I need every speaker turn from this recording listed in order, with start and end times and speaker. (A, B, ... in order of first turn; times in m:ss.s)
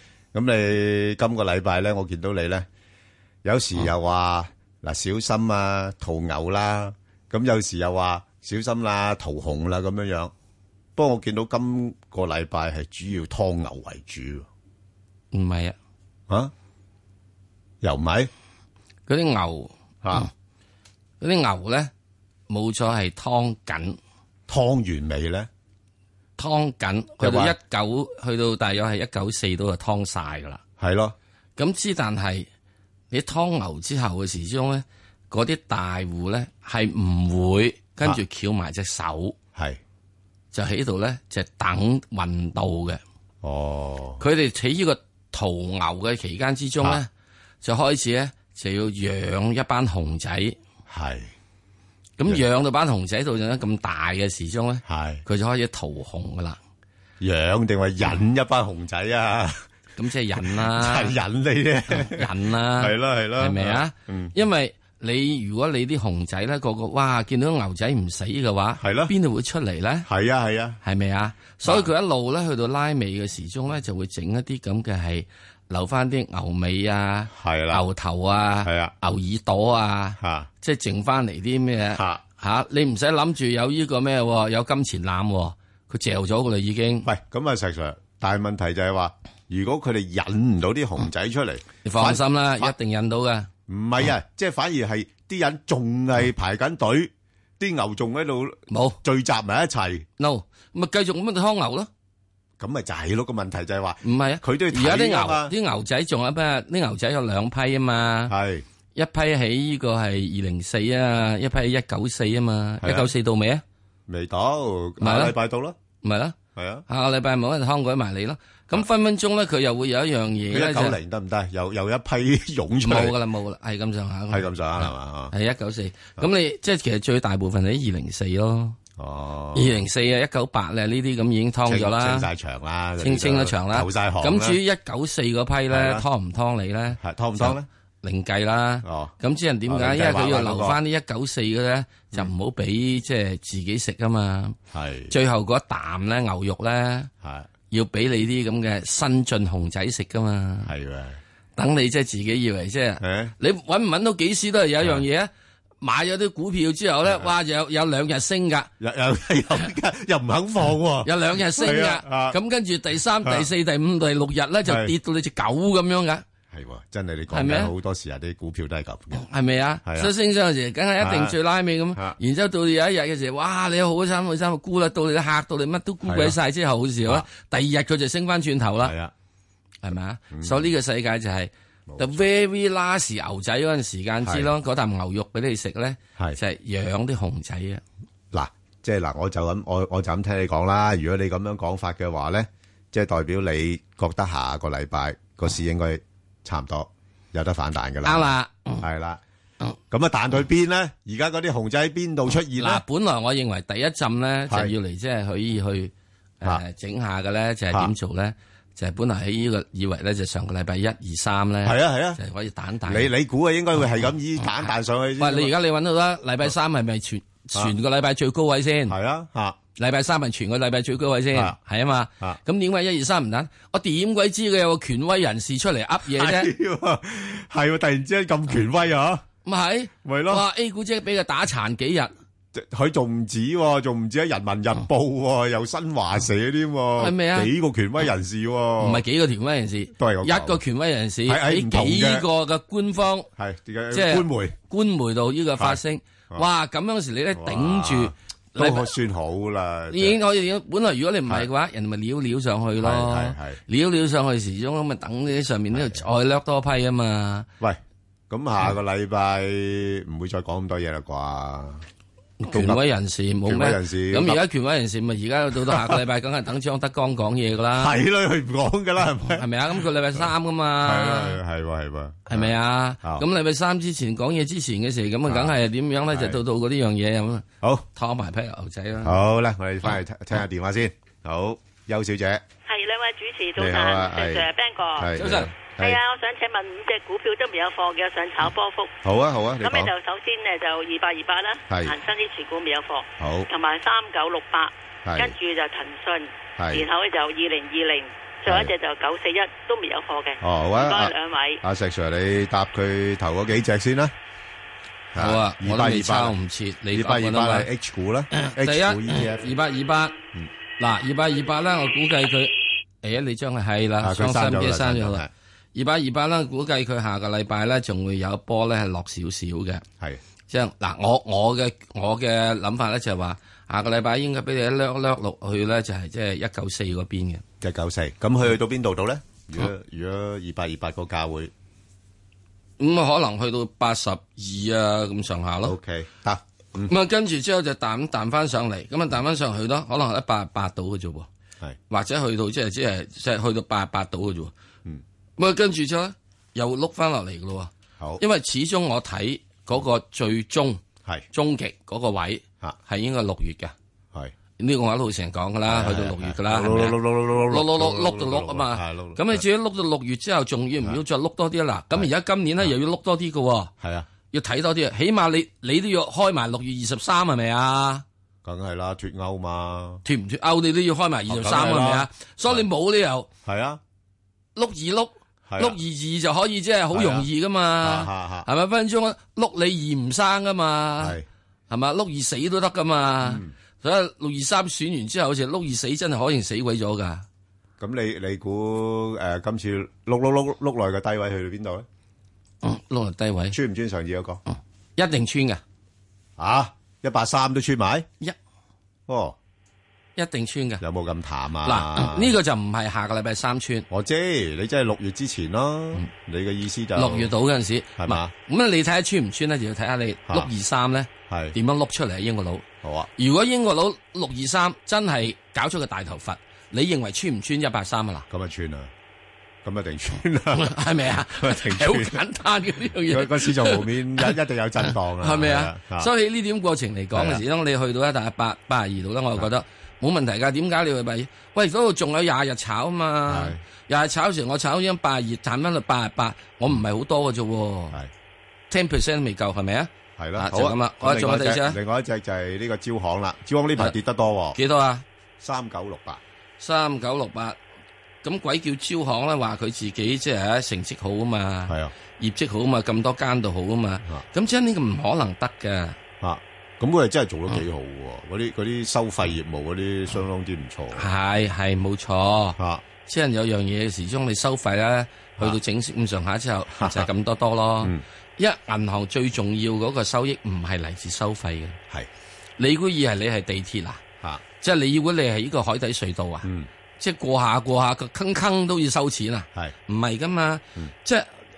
0:00.3-0:02.6 A
0:03.4-0:10.3 A
0:11.0-0:14.4 A
0:15.3-0:15.8 B
0:17.8-0:18.3 A
0:19.1-0:20.3 B
0:20.0-0:20.3 A
0:21.2-0:21.9 B
0:22.5-0:24.0 B
0:24.5-0:25.5 A
0:26.4-0:30.6 B
0:27.2-0:27.6 A
0:30.8-0:31.1 A
0:31.6-0:32.5 B
0:33.1-0:39.4 B
0:40.5-0:43.0 B
0:43.4-0:44.2 A
0:44.2-0:47.1 B
0:47.6-0:50.6 B
0:50.9-0:51.3 A
0:52.2-0:56.6 B
0:54.9-0:55.2 A
0:57.2-0:59.6 A
1:00.0-1:01.2 B
1:00.4-1:04.3 A
1:01.9-1:10.1 B
1:08.8-1:09.1 A
1:10.0-1:10.8 A
1:10.8-1:27.1 B
1:17.3-1:17.8 A
1:18.6-1:18.9 A
1:20.2-1:20.5 A
1:21.9-1:22.2 A
1:27.0-1:32.7 A
1:31.8-1:33.5 B
1:33.7-1:40.0 A
1:38.7-1:39.0 B
1:40.2-1:41.9 B
1:42.6-1:45.5 A
1:44.0-1:48.3 B
1:48.3-1:48.6 A
1:48.9-1:53.6 B
1:52.8-1:53.1 A
1:54.1-1:55.7 A
1:55.0-1:55.3 B
1:56.0-1:56.4 B
1:56.5-1:56.8 A
1:56.9-2:01.0 B
2:00.5-2:03.1 A
2:02.8-2:08.8 B
2:04.3-2:05.3 A
2:09.0-2:09.8 A
2:09.5-2:12.3 B
2:11.6-2:14.6 A
2:13.0-2:24.6 B
2:15.7-2:16.0 A
2:17.0-2:17.6 A
2:18.8-2:19.1 A
2:19.7-2:20.8 A
2:24.7-2:25.1 A
2:25.1-2:27.1 B
2:27.2-2:27.5 A
2:27.7-2:30.7 B
2:30.6-2:31.2 A
2:31.6-2:35.3 B
2:33.0-2:33.3 A
2:35.8-2:38.7 B
2:38.8-2:42.4 A
2:41.0-2:46.2 B
2:46.5-2:49.2 A
2:47.3-2:47.7 B
2:49.1-2:58.9 B
2:49.8-2:50.1 A
2:51.0-2:51.4 A
2:56.1-2:56.4 A
2:58.8-2:59.1 A
2:59.8-3:07.8 B
3:00.3-3:00.7 A
3:01.9-3:02.2 A
3:04.2-3:04.5 A
3:08.3-3:19.2 A
3:18.0-3:18.8 B
3:19.9-3:22.8 A
3:22.6-3:33.1 B
3:31.6-3:32.2 A
3:32.9-3:35.5 A
3:34.0-3:39.0 B
3:38.9-3:39.6 A
3:39.8-3:46.5 B
3:46.1-3:49.2 A
3:49.4-3:52.1 B
3:50.0-3:50.4 A
3:52.5-3:59.0 A
3:57.0-3:57.5 B
3:58.8-4:03.3 B
4:00.0-4:00.6 A
4:01.3-4:02.2 A
4:03.4-4:04.6 A
4:03.9-4:08.9 B
4:07.4-4:10.2 A
4:09.9-4:17.5 B
4:12.8-4:13.6 A
4:15.7-4:16.0 A
4:18.3-4:21.8 A
4:22.4-4:27.9 B
4:22.5-4:22.8 A
4:23.5-4:24.4 A
4:25.7-4:26.0 A
4:27.8-4:29.4 A
4:29.3-4:31.4 B
4:30.8-4:33.2 A
4:32.3-4:39.2 B
4:35.3-4:35.5 A
4:36.1-4:36.4 A
4:39.0-4:42.4 A
4:42.6-4:45.1 C
4:43.6-4:46.0 A
4:45.2-4:45.5 B
4:45.6-4:48.9 C
4:49.0-4:49.9 A
4:49.6-5:01.6 C
4:51.7-4:51.9 A
4:53.2-4:53.5 A
4:55.0-4:55.3 A
4:56.6-4:56.8 A
5:00.4-5:04.1 A
5:05.1-5:06.3 A
5:05.2-5:07.7 B
5:06.9-5:09.5 A
5:08.4-5:10.2 B
5:10.8-5:15.2 B
5:14.0-5:15.3 A
5:15.7-5:19.8 B
5:20.5-5:27.4 B
5:27.6-5:31.5 A
5:32.8-5:35.8 B
5:35.6-5:36.9 A
5:36.9-5:41.3 B
5:41.9-5:44.5 B
5:45.4-5:53.7 B
5:54.6-6:03.7 B
5:55.7-5:59.4 A
6:03.8-6:04.0 A
6:04.3-6:08.0 B
6:08.4-6:10.0 A
6:10.0-6:13.3 B
6:11.3-6:12.6 A
6:13.4-6:13.8 A
6:14.6-6:21.1 B
6:15.5-6:15.8 A
6:16.9-6:17.2 A
6:17.8-6:18.5 A
6:21.0-6:21.2 A
6:21.7-6:27.2 B
6:23.2-6:23.5 A
6:27.8-6:31.8 A
6:32.6-6:33.6 B
6:33.5-6:34.4 A
6:35.0-6:35.6 B
6:36.4-6:38.1 A
6:39.1-6:39.4 A
6:40.2-6:40.8 B
6:40.8-6:42.3 A
6:41.6-6:43.8 B
6:43.9-6:47.3 A
6:46.9-6:58.2 B
6:48.0-6:48.3 A
6:51.3-6:51.6 A
6:52.8-6:53.1 A
6:58.3-6:58.9 A
6:59.6-7:00.8 A
7:00.5-7:04.3 B
7:01.4-7:02.2 A
7:03.1-7:06.1 A
7:05.2-7:18.0 B
7:07.1-7:07.4 A
7:13.3-7:13.6 A
7:18.7-7:21.8 B
7:20.2-7:24.6 A
7:24.5-7:25.0 B
7:25.4-7:26.2 A
7:26.6-7:27.6 B
7:28.2-7:36.0 B
7:36.2-7:41.0 A
7:40.9-7:51.8 B
7:42.6-7:42.8 A
7:46.8-7:47.0 A
7:52.6-7:54.0 B
7:54.6-7:56.5 B
7:57.0-8:01.3 B